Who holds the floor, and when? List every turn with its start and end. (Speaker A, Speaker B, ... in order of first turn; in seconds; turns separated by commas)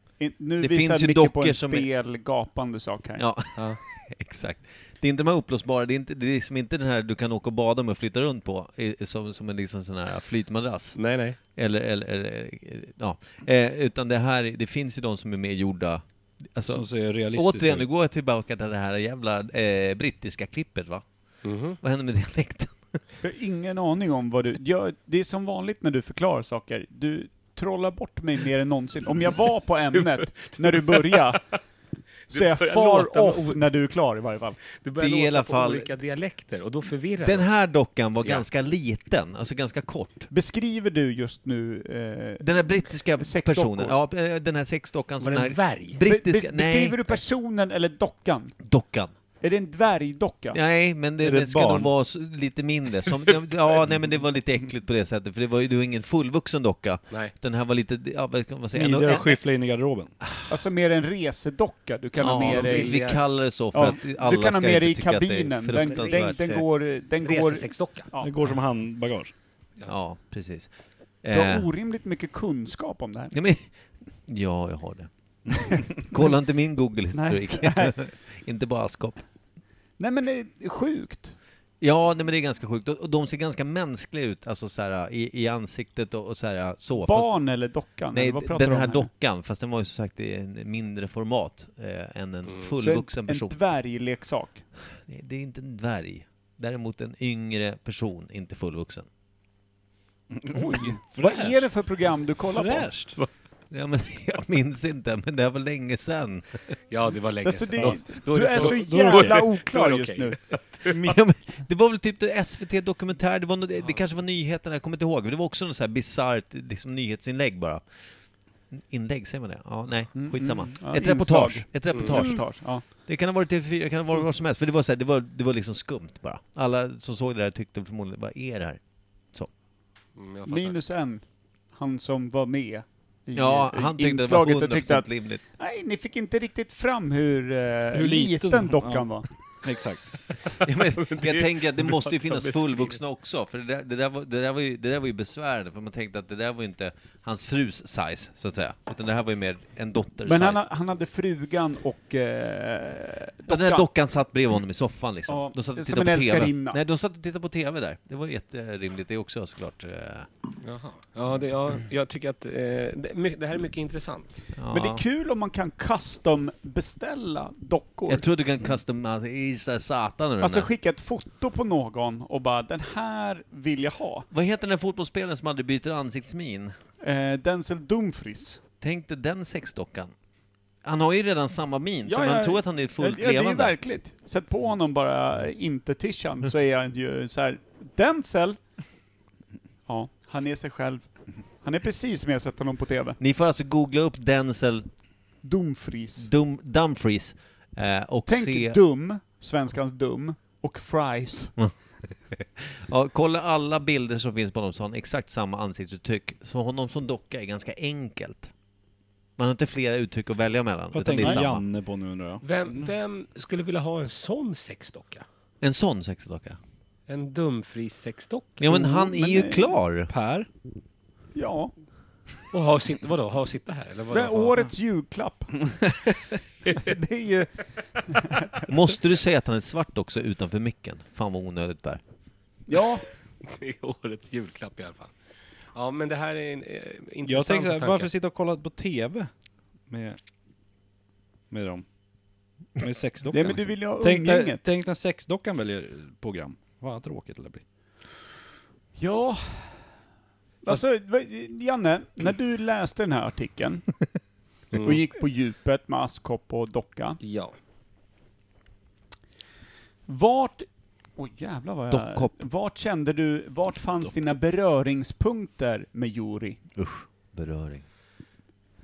Speaker A: 0.2-3.2, Speaker B: 0.6-1.9, Speaker B: 3.2-21.1, Speaker C: 3.6-3.8, Speaker C: 11.0-11.4, Speaker D: 16.7-17.9, Speaker C: 21.4-21.8, Speaker B: 21.8-23.0, Speaker A: 23.2-31.5, Speaker C: 29.9-31.4, Speaker C: 32.3-33.6, Speaker A: 32.3-34.6, Speaker C: 34.7-37.5, Speaker B: 35.0-35.9, Speaker B: 37.2-40.3, Speaker A: 40.3-44.0, Speaker B: 42.4-47.2, Speaker C: 45.2-46.0, Speaker A: 46.0-48.6, Speaker B: 48.6-49.1, Speaker A: 49.4-50.6, Speaker B: 50.5-59.4, Speaker D: 51.2-51.9, Speaker D: 58.7-60.1, Speaker A: 60.5-63.1, Speaker B: 62.2-66.6, Speaker C: 62.4-63.2, Speaker A: 63.7-68.3, Speaker C: 65.8-66.6, Speaker C: 67.2-68.1, Speaker D: 68.2-69.3, Speaker B: 69.9-71.7, Speaker A: 71.3-73.3, Speaker B: 73.3-79.2, Speaker A: 77.1-77.9, Speaker A: 80.0-81.4, Speaker B: 81.8-87.4, Speaker A: 87.0-89.1, Speaker B: 88.1-93.6, Speaker A: 92.8-94.7, Speaker B: 95.0-99.1, Speaker D: 100.4-101.6, Speaker A: 100.5-103.0, Speaker D: 102.5-103.2, Speaker B: 103.7-106.8, Speaker C: 106.9-111.0, Speaker A: 107.5-110.6, Speaker D: 108.4-109.5, Speaker B: 110.9-117.8, Speaker B: 118.7-128.8, Speaker A: 120.1-122.9, Speaker C: 121.9-122.2, Speaker C: 130.2-130.8, Speaker A: 130.5-139.3, Speaker B: 133.3-135.4, Speaker D: 137.9-140.2, Speaker B: 140.6-150.7, Speaker C: 141.0-143.0, Speaker A: 150.2-153.9, Speaker B: 153.5-160.3, Speaker A: 155.3-156.8, Speaker C: 160.6-164.4, Speaker B: 164.6-165.0, Speaker A: 164.7-168.2, Speaker B: 168.1-170.7, Speaker A: 170.4-174.3, Speaker B: 174.3-176.8, Speaker A: 177.0-178.6, Speaker B: 178.8-180.1, Speaker B: 180.8-183.8, Speaker A: 182.1-188.6, Speaker A: 189.9-193.2, Speaker B: 193.2-194.9, Speaker A: 195.4-196.3, Speaker B: 196.2-198.8, Speaker A: 198.3-201.6, Speaker B: 202.3-208.5, Speaker B: 209.4-211.7, Speaker D: 210.9-212.4, Speaker C: 212.4-215.2, Speaker B: 215.6-216.6, Speaker C: 217.1-218.7, Speaker B: 218.6-220.1, Speaker A: 218.7-219.8, Speaker D: 220.1-220.5, Speaker A: 221.3-221.7, Speaker C: 222.5-224.6, Speaker A: 224.1-226.1, Speaker A: 226.7-228.6, Speaker B: 228.7-232.0, Speaker A: 232.7-233.1, Speaker C: 233.4-235.1, Speaker C: 235.7-238.1, Speaker D: 237.3-239.3, Speaker D: 239.9-240.2, Speaker D: 241.5-241.8, Speaker D: 242.8-247.6, Speaker A: 243.3-244.6, Speaker A: 249.0-249.8, Speaker A: 250.6-254.1, Speaker C: 254.7-255.0, Speaker A: 254.8-257.2, Speaker C: 257.2-257.6, Speaker A: 260.1-266.6, Speaker B: 261.9-262.4, Speaker B: 266.8-267.9